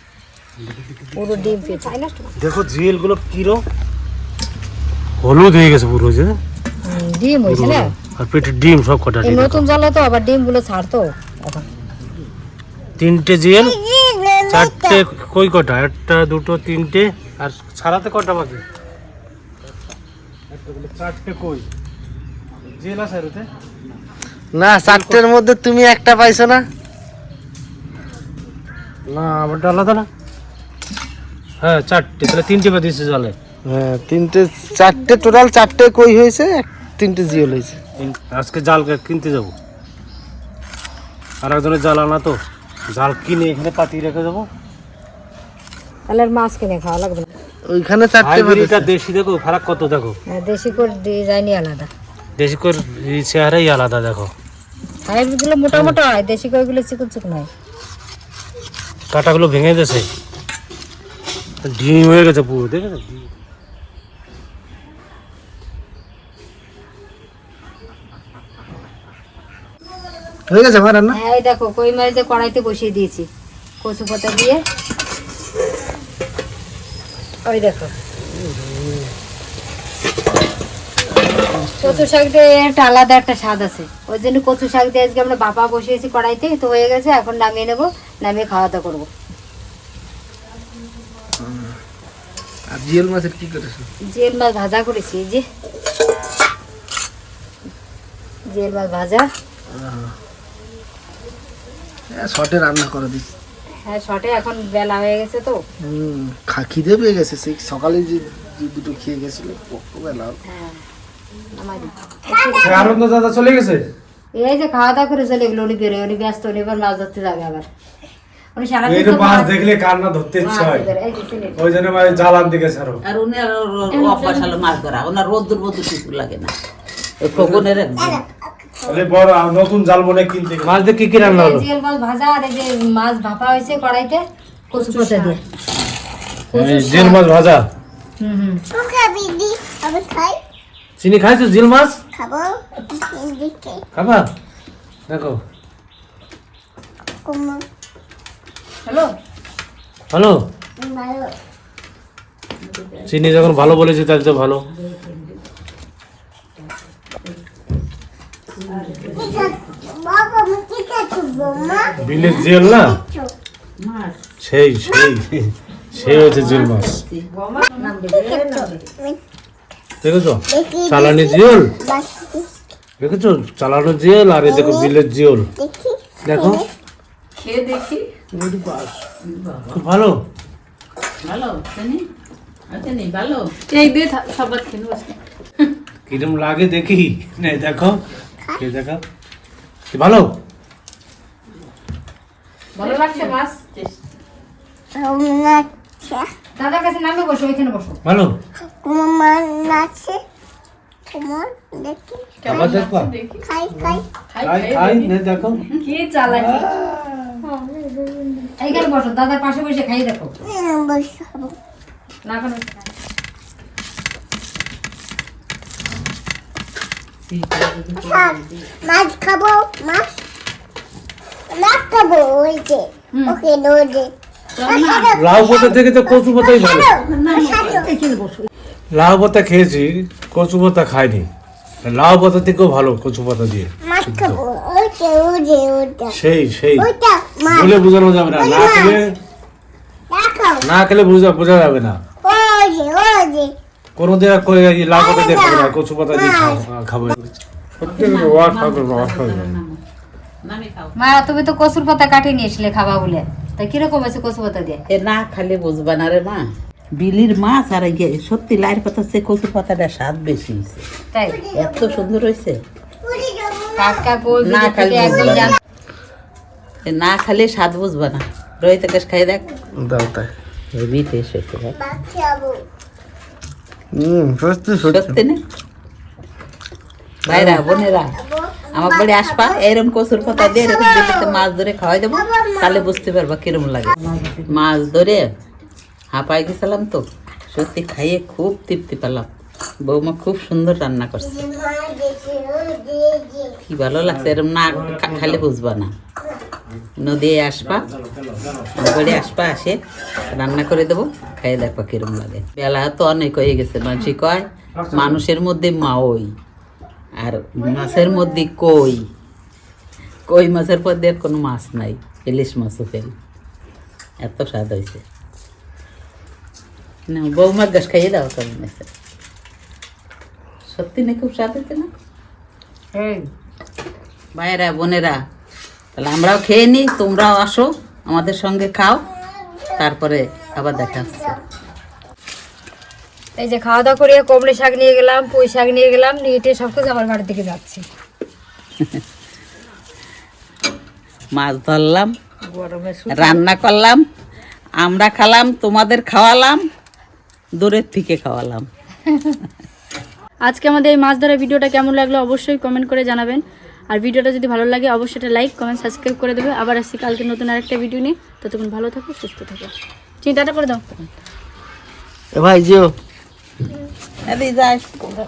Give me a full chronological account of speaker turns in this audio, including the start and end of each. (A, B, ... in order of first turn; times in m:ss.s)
0:00.6-0:01.7 A
0:01.2-0:02.3 B
0:02.4-0:03.6 A
0:05.2-0:06.4 A
0:06.8-0:07.9 B
0:07.4-0:09.7 A
0:09.2-0:11.6 B
0:13.0-0:13.8 A
0:13.5-0:15.0 C
0:14.5-0:18.6 A
0:20.5-0:21.7 A
0:22.8-0:23.5 A
0:24.5-0:26.6 D
0:24.8-0:25.2 A
0:29.1-0:30.1 A
0:31.6-0:33.4 A
0:33.6-0:37.8 D
0:34.8-0:35.4 C
0:38.0-0:39.5 A
0:41.4-0:42.4 A
0:42.9-0:44.5 A
0:46.1-0:47.3 B
0:47.6-0:48.9 D
0:48.2-0:50.2 A
0:50.3-0:51.9 B
0:52.4-0:54.3 A
0:55.1-0:57.5 B
0:55.7-0:56.0 A
0:59.1-1:00.1 A
1:01.6-1:03.3 A
1:10.5-1:11.2 D
1:11.1-1:13.3 B
1:13.8-1:14.6 B
1:17.4-1:17.9 B
1:18.5-1:18.9 D
1:21.8-1:22.0 D
1:21.8-1:29.1 B
1:31.4-1:31.8 D
1:32.7-1:33.9 D
1:34.1-1:35.4 B
1:38.5-1:39.3 B
1:39.7-1:40.1 D
1:42.1-1:43.3 D
1:43.8-1:45.6 B
1:45.8-1:50.4 D
1:50.4-1:50.8 B
1:51.6-1:53.0 B
1:52.6-1:53.8 A
1:54.3-1:57.7 B
1:58.6-1:59.5 B
1:58.8-2:00.9 A
2:00.4-2:01.6 B
2:01.6-2:03.0 A
2:03.0-2:06.5 E
2:03.9-2:04.6 F
2:07.2-2:08.2 E
2:07.3-2:07.7 A
2:08.0-2:09.1 C
2:08.8-2:11.7 A
2:11.2-2:15.4 B
2:14.7-2:15.4 F
2:16.5-2:17.2 B
2:16.5-2:17.6 A
2:18.2-2:18.6 B
2:18.7-2:20.4 C
2:21.0-2:22.0 A
2:22.2-2:23.8 C
2:23.9-2:24.3 A
2:25.1-2:25.4 A
2:27.2-2:27.6 C
2:28.8-2:29.1 B
2:30.1-2:30.4 A
2:30.8-2:31.3 C
2:32.6-2:33.8 E
2:33.1-2:34.6 A
2:34.7-2:35.4 E
2:38.5-2:39.7 E
2:38.8-2:39.4 B
2:39.2-2:43.3 C
2:41.4-2:42.5 E
2:42.0-2:43.0 A
2:43.8-2:44.3 E
2:44.4-2:47.0 A
2:45.9-2:47.3 E
2:47.3-2:48.8 B
2:48.1-2:49.2 C
2:50.0-2:51.7 A
2:50.5-2:52.5 C
2:53.0-2:55.5 A
2:54.4-2:54.9 C
2:55.6-2:56.6 C
2:56.2-2:56.6 A
2:57.4-2:58.1 F
2:58.3-2:59.0 A
2:59.2-2:59.8 E
2:59.7-3:00.2 A
3:01.2-3:02.0 E
3:02.7-3:03.5 E
3:03.7-3:05.2 F
3:06.1-3:08.0 A
3:08.6-3:09.0 A
3:09.9-3:10.4 A
3:12.8-3:13.6 B
3:12.8-3:13.3 F
3:15.0-3:16.3 C
3:16.6-3:18.0 B
3:18.0-3:18.3 A
3:18.7-3:20.2 C
3:21.1-3:22.8 C
3:22.4-3:23.4 F
3:22.4-3:23.1 A
3:23.4-3:24.0 C
3:24.3-3:25.2 F
3:24.4-3:25.6 A
3:25.7-3:26.7 F
3:28.6-3:30.3 B
3:30.4-3:31.5 C
3:32.2-3:32.9 B
3:37.3-3:38.7 E
3:38.0-3:40.2 C
3:41.5-3:44.1 C
3:43.1-3:43.4 F
3:44.6-3:45.1 E
3:44.6-3:47.9 C
3:45.1-3:46.9 A
3:46.9-3:47.9 E
3:48.9-3:51.3 A
3:51.8-3:54.4 A
3:53.8-3:56.2 C
3:56.1-3:56.9 A
3:56.8-3:59.0 C
3:57.5-3:59.2 A
4:00.1-4:00.7 C
4:00.6-4:02.0 A
4:02.2-4:03.5 C
4:04.0-4:09.6 A
4:04.9-4:06.6 C
4:07.8-4:09.8 E
4:10.4-4:11.0 E
4:11.0-4:14.8 B
4:14.9-4:20.9 E
4:21.1-4:21.4 B
4:21.2-4:22.1 C
4:21.5-4:22.6 E
4:23.0-4:24.1 C
4:23.8-4:25.6 B
4:24.4-4:25.6 E
4:26.8-4:29.4 E
4:29.8-4:30.3 D
4:30.7-4:31.7 E
4:31.7-4:32.6 C
4:33.9-4:35.2 D
4:34.8-4:35.4 E
4:37.3-4:38.1 E
4:37.3-4:37.6 D
4:37.6-4:39.7 C
4:38.7-4:43.9 E
4:40.2-4:41.5 C
4:42.1-4:43.0 C
4:44.0-4:44.4 B
4:44.5-4:45.3 E
4:46.1-4:49.3 E
4:49.8-4:51.4 E
4:51.2-4:53.5 C
4:53.6-4:55.9 E
4:54.1-4:55.4 A
4:57.0-4:57.9 E
4:57.6-4:58.7 A
4:58.8-5:06.3 E
5:04.7-5:05.2 A
5:07.2-5:09.1 E
5:07.6-5:08.4 C
5:10.3-5:13.1 E
5:14.2-5:15.0 E
5:17.1-5:18.9 E
5:20.7-5:21.9 E
5:22.9-5:23.3 B
5:24.4-5:25.2 E
5:26.0-5:29.0 E
5:29.6-5:29.8 C
5:29.8-5:31.4 E
5:30.7-5:31.3 C
5:33.4-5:37.8 B
5:41.3-5:42.1 E
5:42.4-5:43.4 B
5:43.1-5:44.0 E
5:44.8-5:46.6 E
5:47.6-5:48.7 E
5:50.4-6:00.8 F
6:02.3-6:02.9 D
6:04.2-6:05.0 E